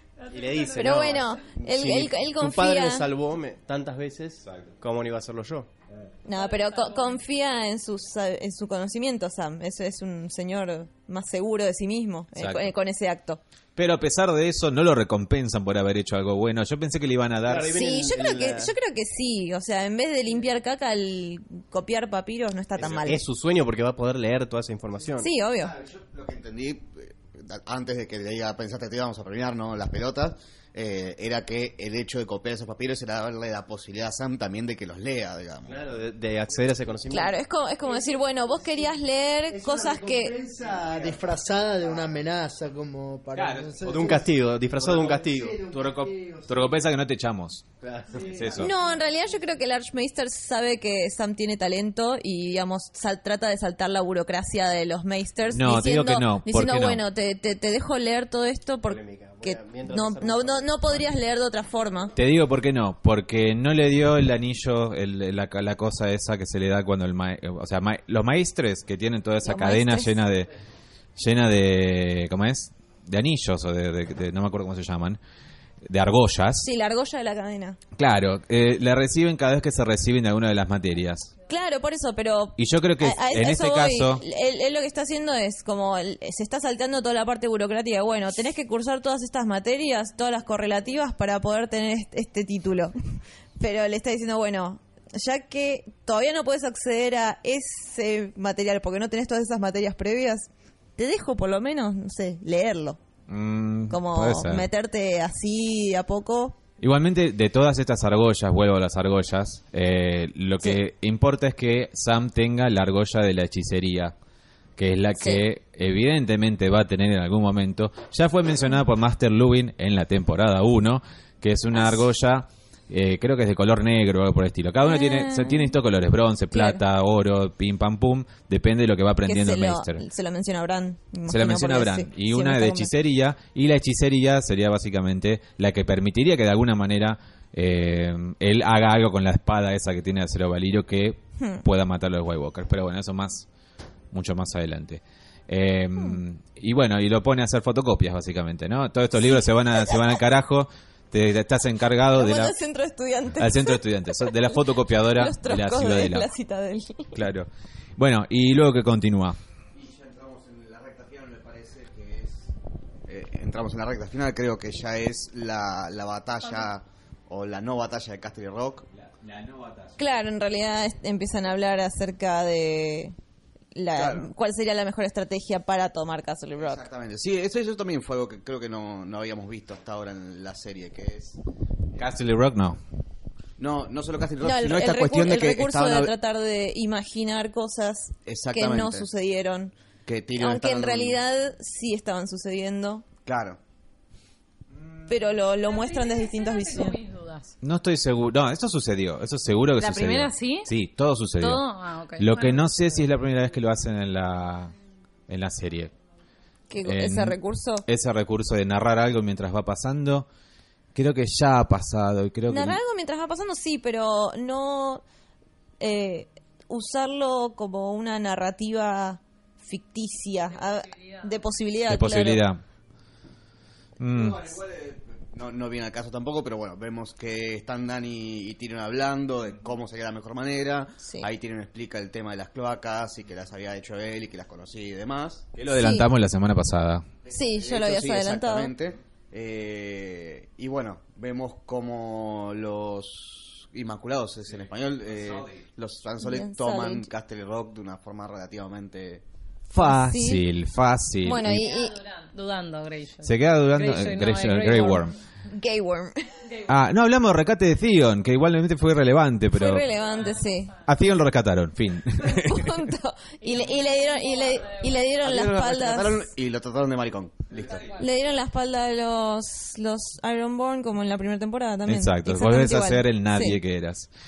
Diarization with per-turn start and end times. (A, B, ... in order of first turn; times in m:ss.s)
0:00.2-0:01.3 A
0:00.3-0:05.7 B
0:00.8-0:03.1 C
0:04.4-0:04.7 D
0:06.2-0:13.4 C
0:06.3-0:07.2 A
0:12.4-0:12.7 D
0:13.8-0:17.7 D
0:17.4-0:18.7 B
0:17.7-0:23.2 C
0:22.8-0:25.3 B
0:25.2-0:25.7 C
0:25.6-0:35.8 E
0:35.6-0:37.4 B
0:37.1-0:40.4 C
0:37.9-0:38.9 F
0:39.5-0:46.8 F
0:40.8-0:41.1 B
0:43.3-0:44.1 D
0:43.8-0:45.7 B
0:45.7-0:47.7 D
0:47.8-0:48.6 B
0:48.1-0:48.9 F
0:48.3-0:48.7 D
0:48.6-1:02.1 C
0:55.5-0:57.0 D
0:58.8-1:01.1 B
1:02.2-1:10.5 D
1:09.4-1:10.1 C
1:11.2-1:15.2 D
1:15.8-1:16.7 D
1:16.6-1:17.8 C
1:18.0-1:21.3 D
1:21.5-1:33.0 C
1:22.6-1:24.2 D
1:33.6-1:43.0 C
1:43.3-1:44.7 D
1:43.9-1:46.6 C
1:46.8-1:54.2 D
1:54.8-2:10.0 D
1:55.2-1:55.4 C
2:01.7-2:02.0 C
2:04.8-2:05.8 C
2:06.5-2:06.8 C
2:09.2-2:12.9 C
2:11.3-2:23.5 D
2:21.4-2:21.6 C
2:24.1-2:32.6 D
2:32.1-2:37.2 C
2:33.4-2:36.3 D
2:37.1-2:39.4 D
2:39.7-2:42.5 E
2:43.1-2:48.9 E
2:48.9-2:50.0 D
2:50.0-2:53.2 C
2:53.7-2:56.8 C
2:53.9-2:54.3 E
2:56.6-3:01.4 E
3:02.0-3:02.8 D
3:03.6-3:06.1 E
3:04.4-3:09.7 C
3:08.3-3:09.1 E
3:10.1-3:11.2 E
3:10.4-3:13.0 C
3:13.3-3:13.6 E
3:14.7-3:15.2 D
3:15.1-3:17.0 C
3:15.7-3:17.6 A
3:17.6-3:21.6 D
3:19.8-3:20.7 A
3:21.4-3:22.9 A
3:22.2-3:24.7 D
3:25.3-3:25.9 D
3:26.7-3:27.9 C
3:26.8-3:30.3 D
3:31.0-3:32.8 D
3:32.5-3:35.0 C
3:35.8-3:42.4 C
3:40.5-3:41.4 A
3:41.9-3:42.6 D
3:44.0-3:44.6 D
3:44.1-3:55.5 E
3:51.0-3:51.3 C
3:55.6-3:57.1 D
3:55.7-3:56.1 C
3:57.2-4:09.2 E
3:57.3-3:58.7 C
4:04.5-4:05.6 D
4:06.2-4:07.1 C
4:09.7-4:11.7 D
4:09.8-4:10.4 C
4:11.2-4:12.0 C
4:11.3-4:15.2 A
4:13.2-4:15.2 D
4:15.5-4:16.4 C
4:16.4-4:16.7 A
4:16.7-4:19.9 D
4:19.5-4:20.7 C
4:19.9-4:20.8 A
4:20.8-4:22.8 D
4:22.2-4:26.3 C
4:23.4-4:25.1 A
4:25.2-4:27.9 E
4:27.5-4:27.8 D
4:27.7-4:28.1 A
4:28.0-4:33.6 C
4:31.9-4:34.1 D